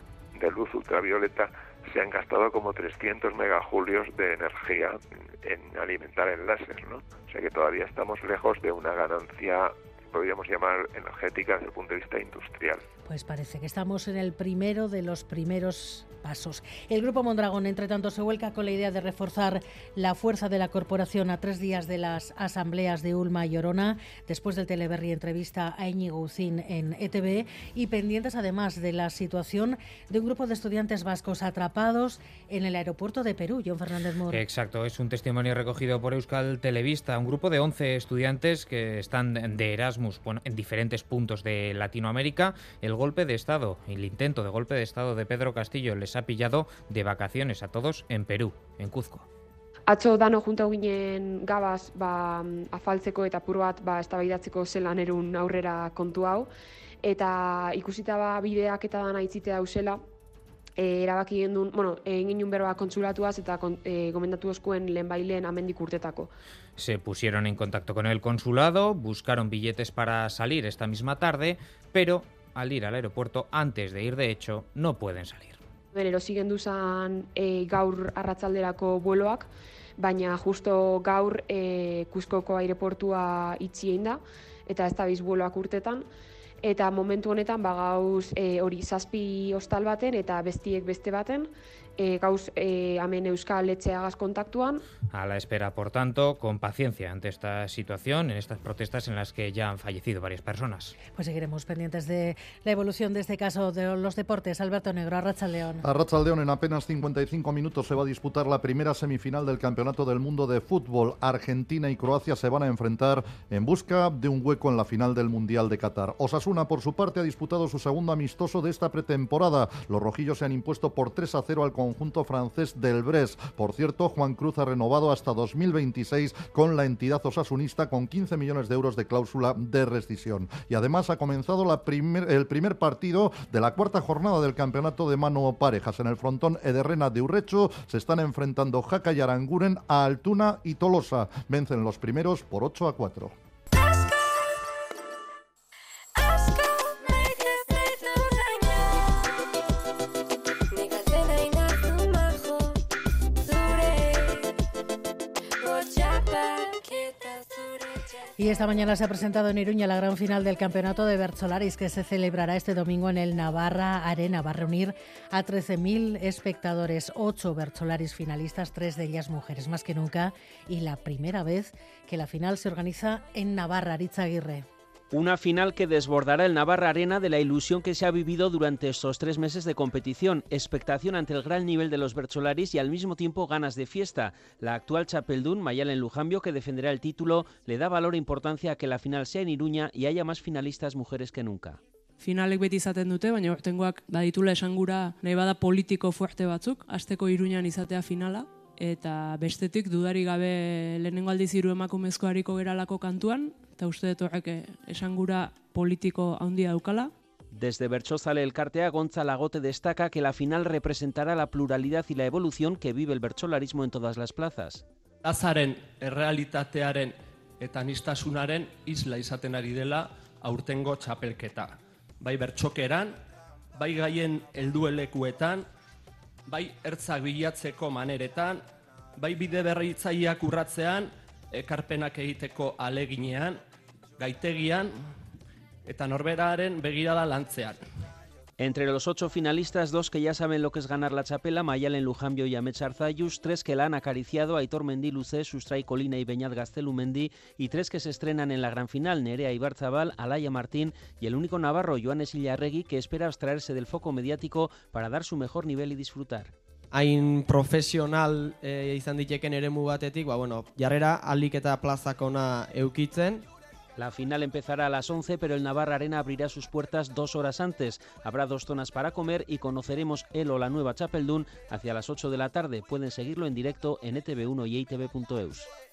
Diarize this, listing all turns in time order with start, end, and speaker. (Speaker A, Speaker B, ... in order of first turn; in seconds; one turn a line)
Speaker A: 0.3-12.8
Speaker B: 13.0-34.4
Speaker C: 34.3-49.2
Speaker D: 49.9-56.5
Speaker D: 57.0-60.0
Speaker D: 60.8-66.3
Speaker C: 66.8-75.6
Speaker D: 75.9-86.0
Speaker D: 86.6-94.8
Speaker C: 95.1-100.9
Speaker B: 101.1-105.8
Speaker E: 105.8-143.3
Speaker B: 158.4-174.7
Speaker F: 175.1-191.8
Speaker G: 192.2-207.1
Speaker F: 207.5-214.8
Speaker H: 215.2-223.1
Speaker H: 223.8-225.6
Speaker H: 226.5-228.6
Speaker H: 229.2-233.6
Speaker H: 234.2-234.9
Speaker H: 235.8-237.8
Speaker F: 238.6-256.5
Speaker I: 256.9-263.4
Speaker F: 264.0-275.7